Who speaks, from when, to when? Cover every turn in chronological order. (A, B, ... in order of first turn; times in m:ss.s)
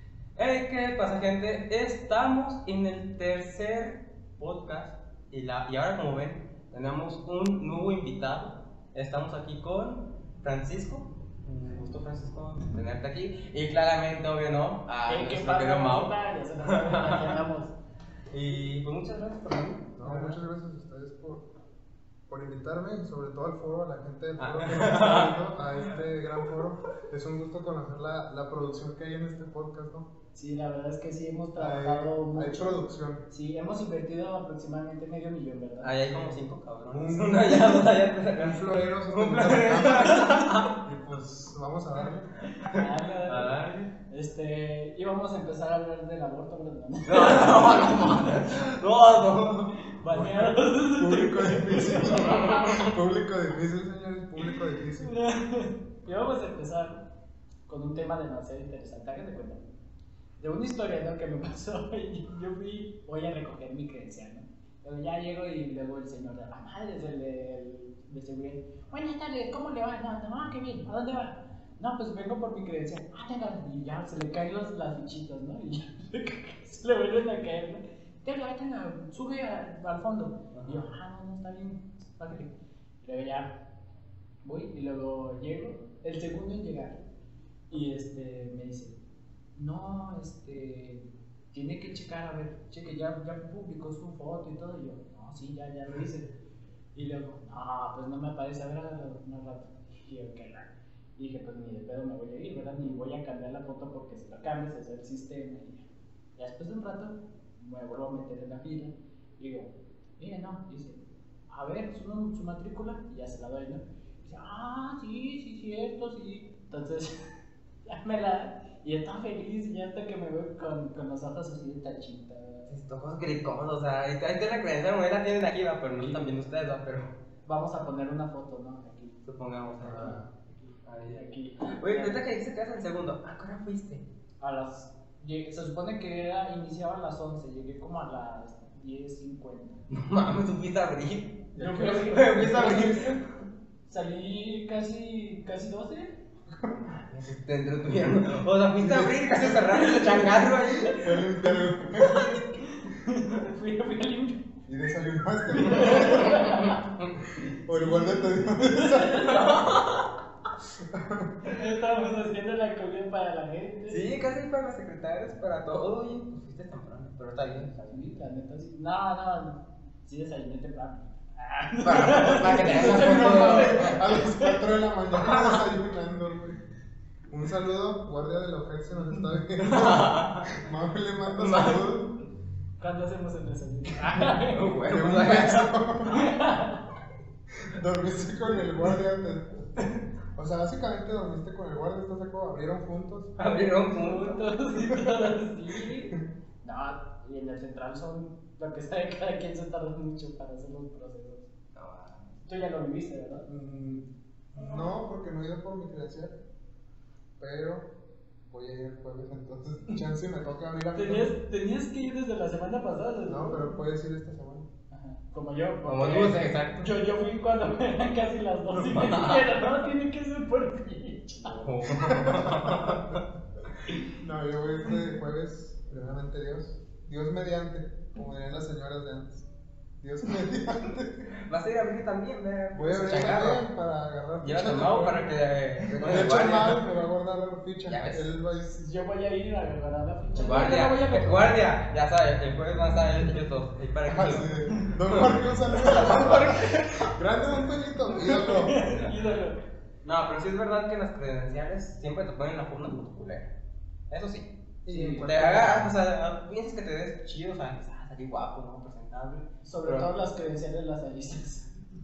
0:00.4-0:17.4 A
0:15.1-0:17.7 B
0:18.3-0:20.4 A
0:19.9-0:21.5 C
0:22.3-0:30.1 C
0:24.4-0:25.4 A
0:30.4-0:36.3 B
0:31.6-0:33.2 C
0:35.8-0:40.7 A
0:36.9-0:42.3 C
0:42.5-0:43.9 A
0:42.6-0:43.5 B
0:44.1-0:48.6 B
0:47.1-0:49.8 A
0:49.9-0:52.8 B
0:50.2-0:50.4 C
0:51.0-0:55.2 C
0:52.1-0:52.9 A
0:55.0-0:57.0 B
0:57.7-0:59.6 B
1:00.4-1:23.5 B
1:20.5-1:20.9 A
1:24.4-1:27.0 B
1:27.7-1:29.0 B
1:29.6-1:36.3 B
1:37.0-1:45.9 B
1:46.4-1:57.2 B
1:57.9-2:02.7 B
2:02.7-2:07.1 A
2:06.0-2:06.4 B
2:07.4-2:09.2 B
2:09.3-2:10.2 A
2:09.8-2:10.3 C
2:10.0-2:12.3 B
2:10.8-2:14.0 A
2:14.4-2:19.8 B
2:19.9-2:23.2 A
2:21.6-2:23.1 C
2:21.6-2:23.2 B
2:23.9-2:26.2 B
2:26.6-2:27.0 C
2:26.8-2:31.0 A
2:28.8-2:32.4 C
2:30.0-2:31.0 B
2:32.0-2:34.4 B
2:34.7-2:36.4 C
2:35.5-2:36.8 B
2:35.7-2:37.1 A
2:37.4-2:39.5 C
2:37.8-2:38.1 A
2:37.8-2:40.0 B
2:39.0-2:40.0 A
2:40.8-2:41.3 C
2:41.4-2:44.0 B
2:43.9-2:48.1 A
2:47.9-2:54.6 B
2:51.8-2:54.0 A
2:52.5-2:56.6 C
2:55.2-2:55.6 A
2:57.3-3:02.1 C
2:59.6-3:00.6 A
3:01.3-3:01.9 A
3:02.8-3:04.7 B
3:04.5-3:06.2 A
3:04.8-3:06.3 C
3:06.1-3:06.8 B
3:07.5-3:09.8 C
3:10.4-3:13.4 C
3:13.4-3:15.3 A
3:13.4-3:21.5 B
3:21.8-3:22.3 A
3:22.5-3:23.5 B
3:23.5-3:26.3 C
3:27.4-3:27.9 C
3:28.5-3:31.3 C
3:30.9-3:33.7 B
3:33.3-3:34.7 C
3:34.9-3:41.6 B
3:35.9-3:37.0 A
3:38.8-3:39.6 A
3:41.4-3:43.2 A
3:41.9-3:43.2 C
3:44.0-3:49.5 C
3:50.0-3:51.3 C
3:51.4-3:53.6 A
3:52.7-3:55.4 C
3:54.4-3:56.9 A
3:55.9-3:58.8 C
3:57.9-3:58.3 A
3:58.8-4:01.6 B
4:00.4-4:07.2 A
4:04.1-4:08.8 C
4:08.3-4:09.6 B
4:08.6-4:09.2 A
4:10.0-4:13.5 A
4:14.1-4:20.1 A
4:14.8-4:15.9 C
4:19.6-4:21.7 B